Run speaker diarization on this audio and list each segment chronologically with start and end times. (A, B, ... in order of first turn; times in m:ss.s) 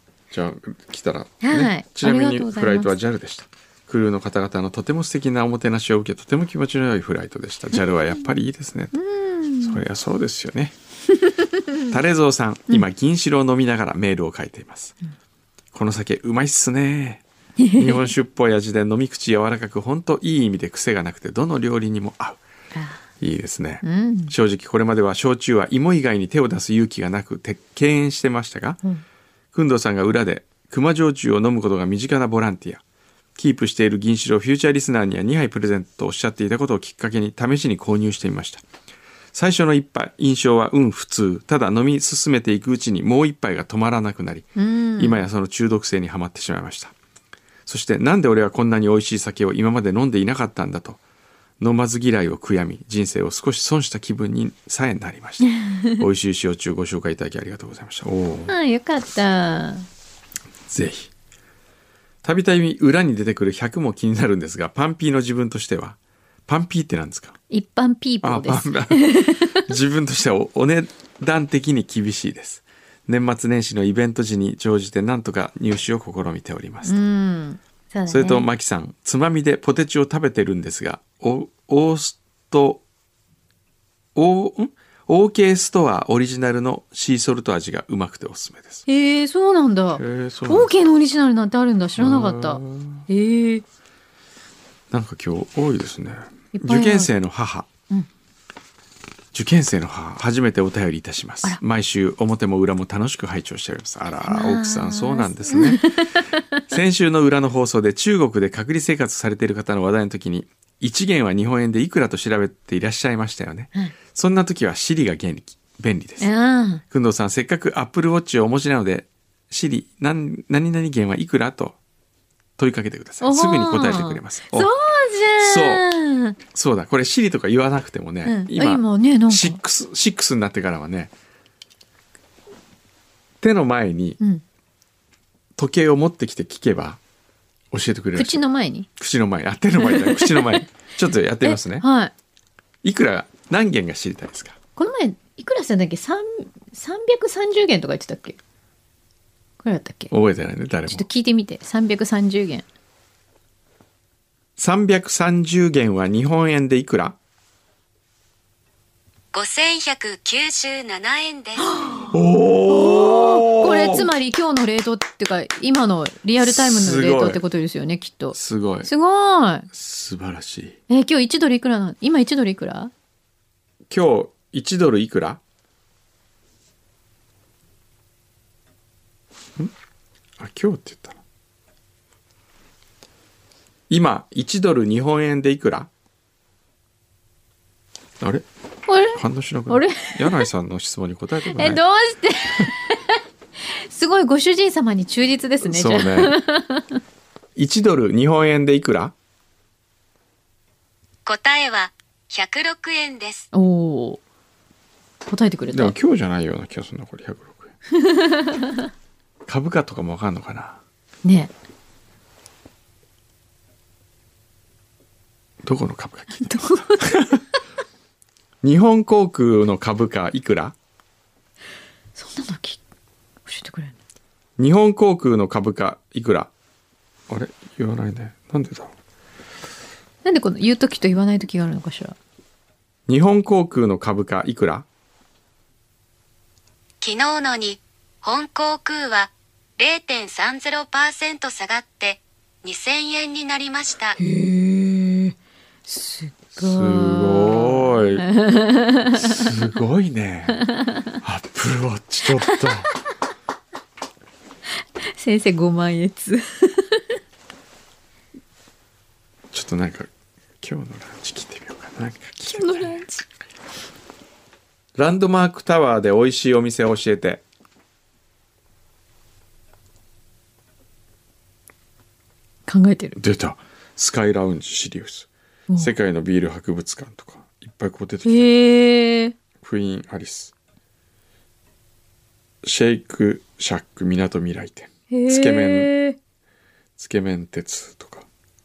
0:00.3-0:08.9 A
0:01.4-0:02.9 B
0:08.9-0:09.8 B
0:09.6-0:10.8 A
0:11.9-0:14.9 A
0:15.7-0:17.2 A
0:17.6-0:18.1 B
0:17.8-0:22.4 A
0:22.7-0:23.0 B
0:23.2-0:28.8 A
0:23.8-0:24.3 B
0:29.5-0:32.8 A
0:33.4-0:38.6 A
0:39.3-0:46.9 A
0:44.6-0:45.2 B
0:47.7-0:51.0 A
0:51.6-0:58.5 A
0:55.4-0:55.9 B
0:58.5-0:59.9 B
1:00.7-1:01.1 A
1:02.2-1:07.4 A
1:07.5-1:09.7 B
1:08.2-1:17.0 A
1:16.8-1:18.5 B
1:18.1-1:22.8 A
1:24.1-1:28.8 A
1:28.9-1:33.6 B
1:29.9-1:30.7 A
1:32.0-1:33.1 A
1:34.9-1:37.7 A
1:36.5-1:37.1 B
1:39.3-1:46.1 A
1:44.2-1:46.6 B
1:46.7-1:56.3 A
1:56.2-1:56.8 B
1:56.9-2:01.8 A
2:02.6-2:04.7 A
2:03.2-2:06.4 B
2:05.4-2:05.8 A
2:06.5-2:11.1 A
2:08.2-2:09.6 B
2:13.4-2:14.2 A
2:15.6-2:17.0 A
2:17.7-2:18.4 A
2:18.2-2:18.9 B
2:19.0-2:21.8 A
2:19.8-2:20.6 B
2:21.4-2:22.1 B
2:22.8-2:24.6 A
2:24.8-2:28.4 B
2:29.6-2:30.1 B
2:30.1-2:31.1 A
2:30.9-2:32.6 B
2:34.6-2:37.2 A
2:39.3-2:41.7 C
2:41.6-2:42.1 B
2:42.1-2:44.1 A
2:42.7-2:49.7 B
2:46.4-2:47.4 A
2:48.3-2:48.9 A
2:49.7-2:50.8 A
2:50.9-2:52.9 B
2:53.9-2:55.4 A
3:00.4-3:01.2 A
3:03.9-3:05.9 A
3:08.2-3:08.4 A
3:08.9-3:10.5 B
3:09.1-3:11.8 A
3:11.5-3:17.0 B
3:15.6-3:16.3 A
3:17.6-3:19.1 A
3:21.3-3:23.5 C
3:23.5-3:24.2 B
3:25.3-3:25.9 B
3:25.7-3:27.7 A
3:27.9-3:28.8 B
3:29.5-3:30.8 A
3:31.2-3:31.5 B
3:35.6-3:37.4 A
3:36.3-3:37.3 B
3:38.6-3:40.7 A
3:42.2-3:42.8 B
3:43.4-3:43.9 B
3:44.6-3:46.5 A
3:47.3-3:48.9 A
3:50.2-3:52.2 B
3:53.1-3:54.8 A
3:57.0-4:04.2 C
4:04.2-4:05.3 B
4:05.9-4:09.5 B
4:06.6-4:08.2 A
4:09.2-4:10.6 A
4:11.2-4:12.9 A
4:15.2-4:17.0 B
4:19.5-4:20.1 A
4:20.6-4:22.9 A
4:22.5-4:23.2 B
4:25.0-4:27.4 A
4:32.7-4:33.2 B
4:33.2-4:38.5 A
4:38.2-4:39.3 B
4:39.6-4:40.5 A
4:42.6-4:45.9 A
4:45.1-4:46.2 B
4:47.0-4:48.3 A